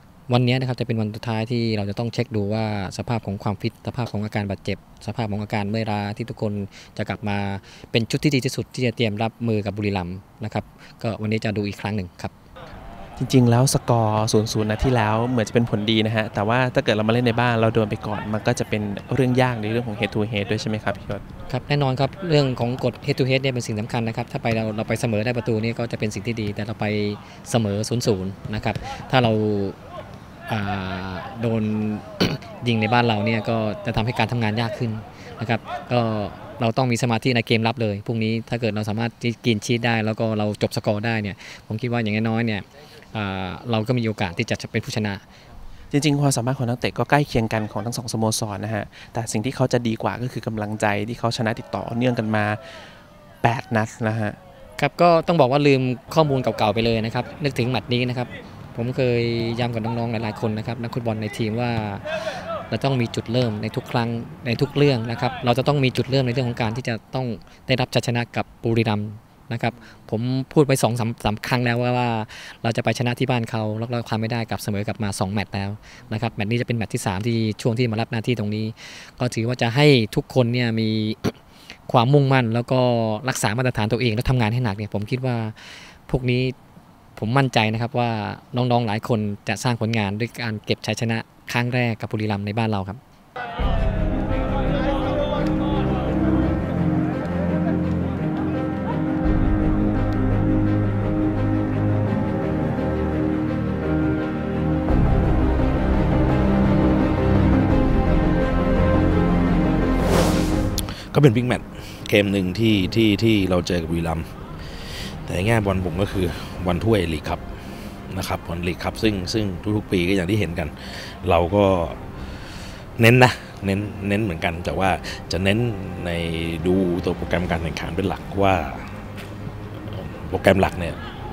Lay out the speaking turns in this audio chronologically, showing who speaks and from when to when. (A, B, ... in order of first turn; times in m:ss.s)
0:00.3-0:12.3 A
0:13.2-0:21.2 B
0:21.5-0:29.8 A
0:30.5-0:45.2 A
0:45.9-0:52.6 B
0:53.4-0:54.4 B
0:54.8-1:26.6 A
1:27.2-1:33.0 A
1:51.1-1:57.4 C
1:58.1-2:02.0 C
2:03.0-2:09.0 C
2:09.9-2:11.0 C